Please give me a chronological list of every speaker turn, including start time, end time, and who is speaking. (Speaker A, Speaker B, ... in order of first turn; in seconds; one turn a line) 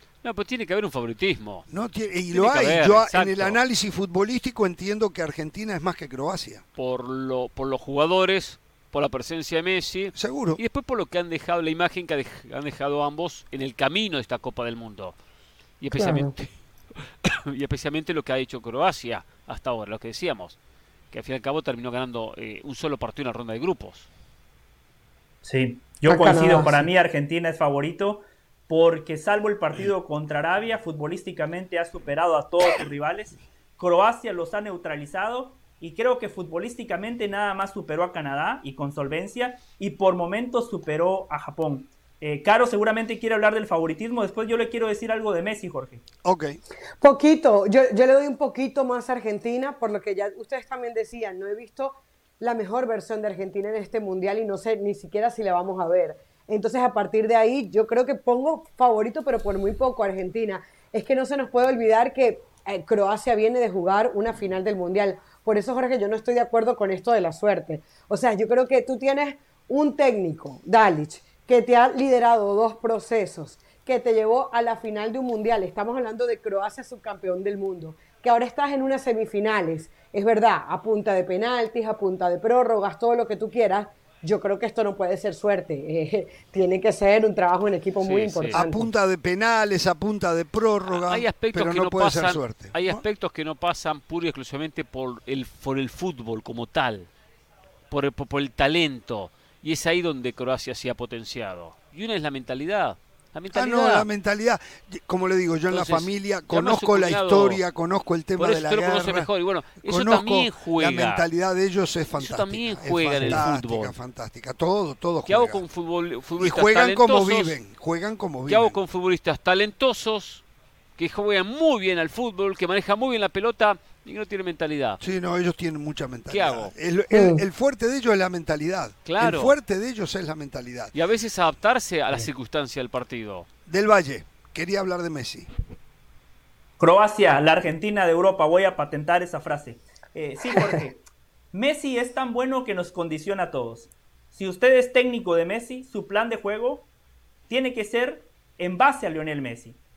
Speaker A: 0.2-1.6
Speaker B: 1.7-6.6
Speaker A: 2.3-3.6
Speaker A: 6.8-15.2
Speaker B: 10.2-10.6
Speaker A: 15.8-16.5
Speaker C: 15.9-16.3
Speaker A: 17.2-20.6
Speaker A: 21.1-24.1
Speaker D: 25.4-46.0
Speaker C: 26.1-26.9
Speaker B: 46.2-46.6
Speaker C: 47.0-88.9
Speaker A: 88.0-88.6
Speaker B: 88.5-93.0
Speaker A: 90.9-97.1
Speaker A: 97.9-104.1
Speaker B: 103.5-109.3
Speaker A: 105.7-107.6
Speaker A: 108.4-111.2
Speaker B: 109.8-115.6
Speaker A: 112.2-113.9
Speaker A: 115.3-117.6
Speaker B: 116.4-118.8
Speaker A: 118.5-120.4
Speaker A: 121.0-125.0
Speaker B: 125.0-130.9
Speaker A: 126.3-126.7
Speaker C: 127.1-127.4
Speaker A: 129.1-129.6
Speaker A: 130.9-133.5
Speaker B: 133.7-135.5
Speaker D: 136.8-141.0
Speaker D: 141.5-146.9
Speaker D: 147.5-149.8